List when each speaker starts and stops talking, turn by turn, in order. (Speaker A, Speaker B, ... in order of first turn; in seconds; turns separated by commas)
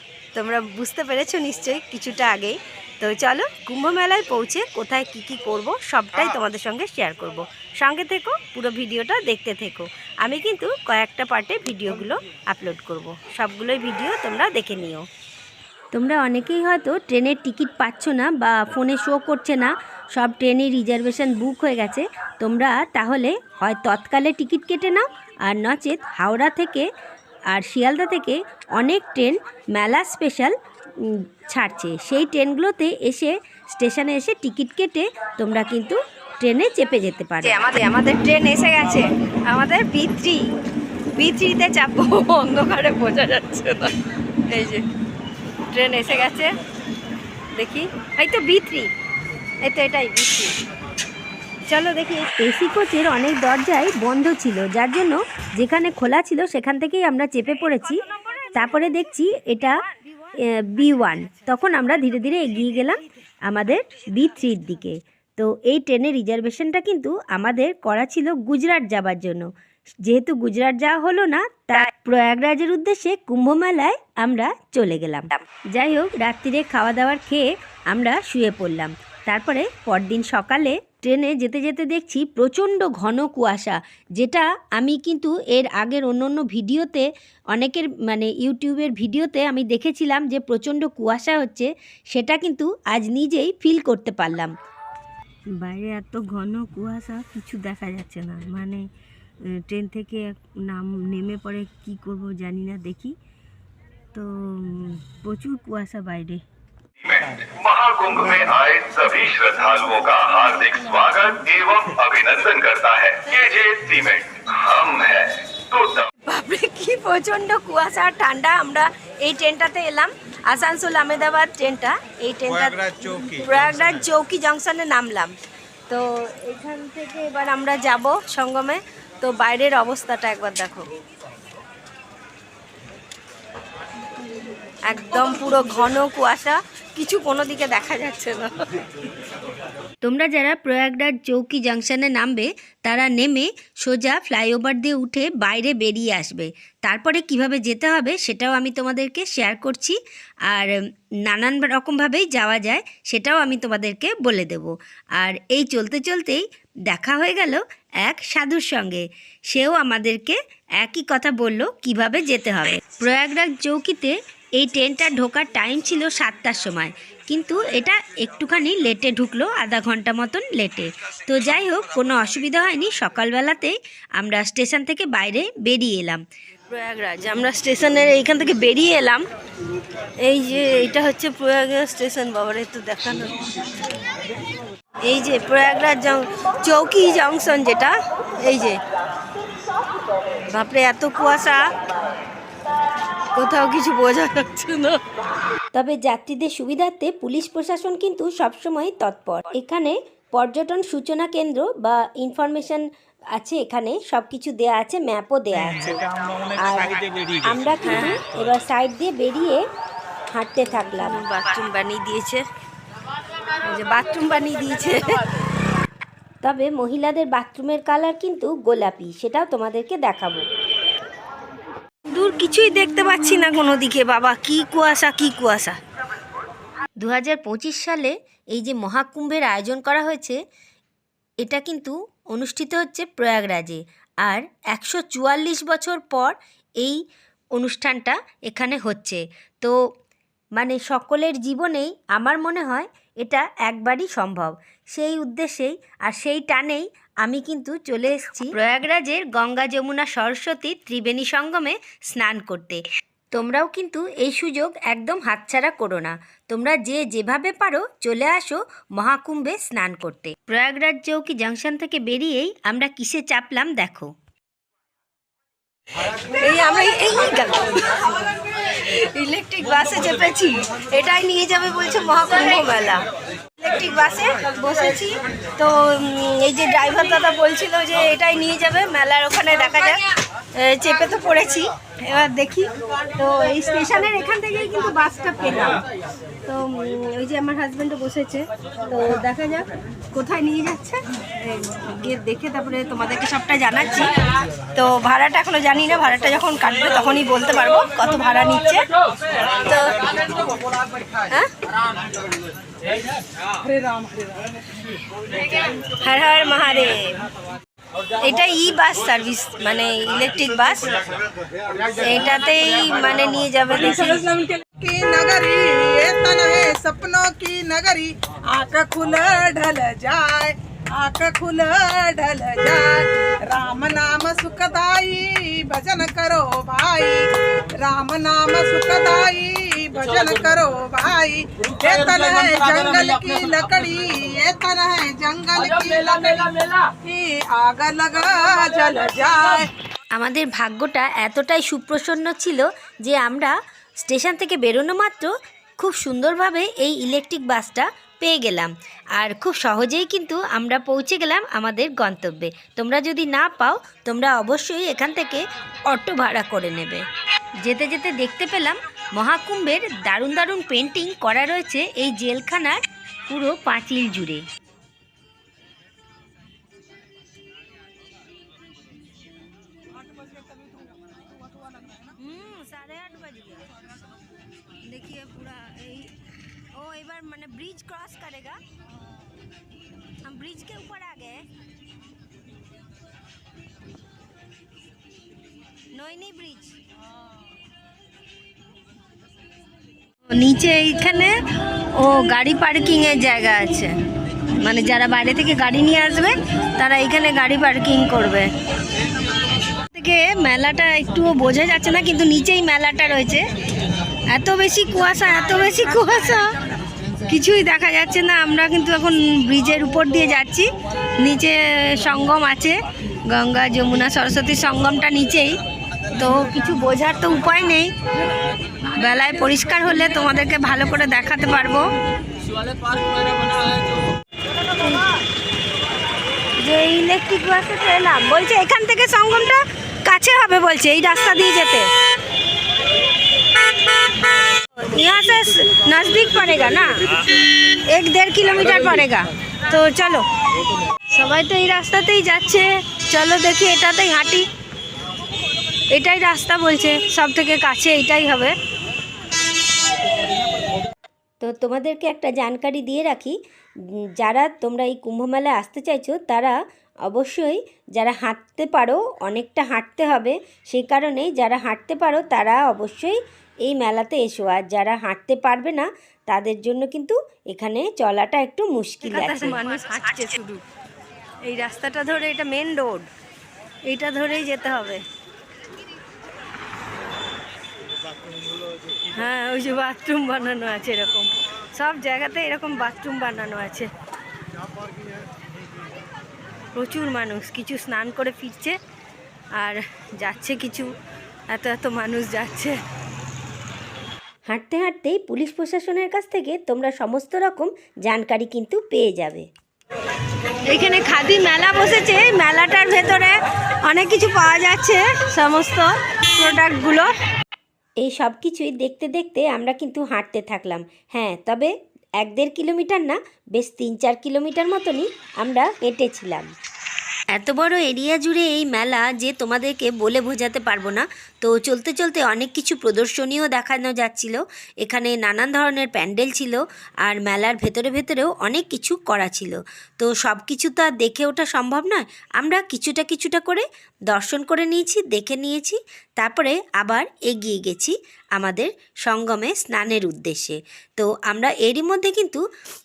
Speaker A: 0.3-15.0, Speaker A: 15.9-26.9, Speaker A: 27.5-37.6, Speaker B: 37.4-40.4, Speaker B: 41.1-44.0, Speaker B: 44.5-44.8, Speaker B: 45.7-46.5, Speaker B: 47.5-48.9, Speaker B: 49.6-50.5, Speaker B: 51.7-52.3, Speaker A: 52.4-59.7, Speaker B: 57.7-58.9, Speaker A: 60.5-69.5, Speaker A: 70.0-94.5, Speaker A: 95.6-98.8, Speaker A: 99.7-103.1, Speaker A: 104.2-106.4, Speaker C: 107.0-116.1, Speaker B: 116.2-125.3, Speaker B: 125.9-130.9, Speaker B: 134.9-138.5, Speaker A: 140.0-150.0, Speaker A: 150.5-150.7, Speaker A: 151.2-176.2, Speaker B: 176.7-179.2, Speaker B: 180.2-183.4, Speaker B: 185.0-188.8, Speaker B: 190.3-191.6, Speaker B: 193.3-195.0, Speaker A: 195.7-206.0, Speaker A: 206.6-209.6, Speaker B: 207.8-208.2, Speaker A: 210.3-211.2, Speaker B: 210.8-212.4, Speaker B: 213.6-215.2, Speaker A: 216.4-220.4, Speaker B: 222.1-225.8, Speaker A: 227.0-230.4, Speaker A: 231.4-237.0, Speaker A: 237.6-239.7, Speaker A: 240.6-252.8, Speaker A: 253.3-264.1, Speaker B: 266.4-268.1, Speaker B: 268.7-273.0, Speaker B: 273.6-280.0, Speaker B: 280.5-285.8, Speaker B: 286.5-294.1, Speaker B: 294.7-298.9, Speaker B: 299.6-300.2, Speaker B: 306.0-307.2, Speaker B: 308.2-310.8, Speaker B: 312.0-314.6, Speaker D: 314.7-327.3, Speaker D: 327.8-339.7, Speaker A: 340.1-357.0, Speaker A: 357.6-364.4, Speaker B: 372.2-373.7, Speaker B: 374.9-376.1, Speaker B: 376.7-378.6, Speaker B: 380.2-381.4, Speaker B: 385.9-386.7, Speaker B: 390.3-391.3, Speaker B: 392.0-393.9, Speaker B: 394.6-398.4, Speaker B: 399.9-403.4, Speaker B: 404.3-406.4, Speaker B: 407.3-410.6, Speaker B: 411.2-412.8, Speaker B: 413.3-415.6, Speaker B: 416.1-417.9, Speaker B: 418.9-421.8, Speaker B: 424.8-425.1, Speaker B: 426.6-431.9, Speaker B: 434.8-436.9, Speaker B: 437.9-440.2, Speaker B: 441.1-444.4, Speaker B: 445.9-448.5, Speaker A: 451.4-453.3, Speaker A: 454.2-456.5, Speaker A: 457.1-469.6, Speaker B: 469.0-470.6, Speaker B: 471.4-473.1, Speaker B: 473.9-475.0, Speaker B: 479.1-483.9, Speaker B: 486.7-488.8, Speaker B: 489.6-490.9, Speaker B: 491.5-492.8, Speaker A: 494.5-499.4, Speaker B: 500.7-503.3, Speaker B: 503.8-507.1, Speaker A: 508.0-516.5, Speaker A: 517.3-542.4